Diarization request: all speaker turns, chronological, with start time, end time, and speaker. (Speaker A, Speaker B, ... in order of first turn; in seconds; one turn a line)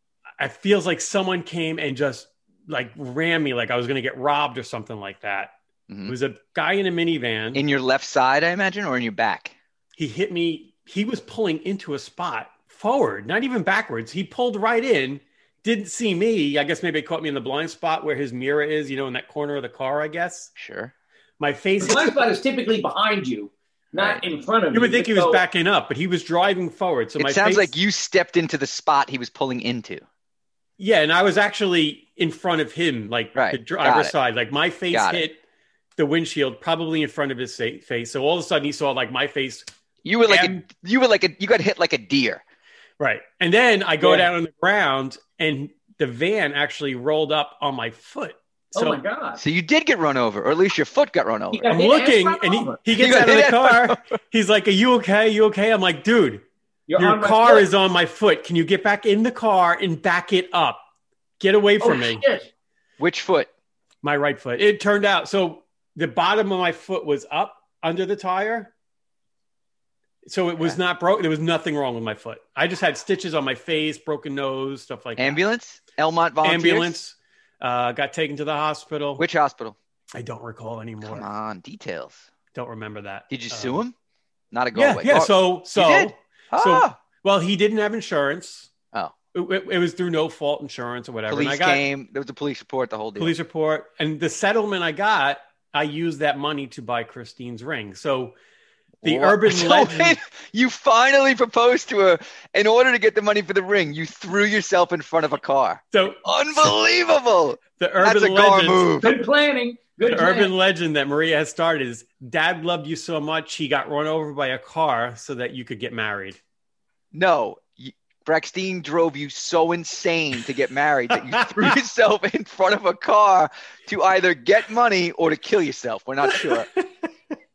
Speaker A: 0.4-5.5
Speaker B: 5.9-6.1
Speaker A: 6.0-7.6
Speaker B: 7.5-9.6
Speaker A: 10.0-20.5
Speaker B: 20.6-20.9
Speaker A: 21.4-22.1
Speaker C: 21.8-25.4
Speaker B: 23.9-24.2
Speaker A: 24.7-27.8
Speaker B: 27.2-30.0
Speaker A: 30.8-35.4
Speaker B: 33.3-34.1
Speaker B: 34.9-35.2
Speaker A: 36.0-39.6
Speaker B: 40.0-42.4
Speaker A: 40.2-40.6
Speaker A: 43.0-49.0
Speaker C: 44.0-44.3
Speaker C: 48.7-49.4
Speaker B: 49.4-51.7
Speaker C: 51.5-52.8
Speaker A: 51.7-56.4
Speaker B: 52.9-54.1
Speaker C: 56.9-57.7
Speaker A: 57.0-60.8
Speaker A: 61.4-62.2
Speaker C: 61.8-62.5
Speaker B: 63.0-63.5
Speaker A: 64.0-68.7
Speaker A: 70.2-75.4
Speaker B: 75.2-77.0
Speaker A: 76.4-79.2
Speaker B: 79.2-79.8
Speaker A: 80.1-81.3
Speaker B: 81.0-82.3
Speaker A: 82.5-83.8
Speaker B: 83.3-83.9
Speaker B: 84.5-87.0
Speaker A: 84.7-88.7
Speaker A: 89.3-91.8
Speaker B: 91.3-93.3
Speaker A: 93.2-98.3
Speaker A: 99.0-100.2
Speaker B: 99.0-109.1
Speaker A: 105.9-106.7
Speaker A: 107.8-109.2
Speaker C: 109.0-110.5
Speaker A: 110.0-116.4
Speaker B: 117.1-126.7
Speaker A: 126.3-126.8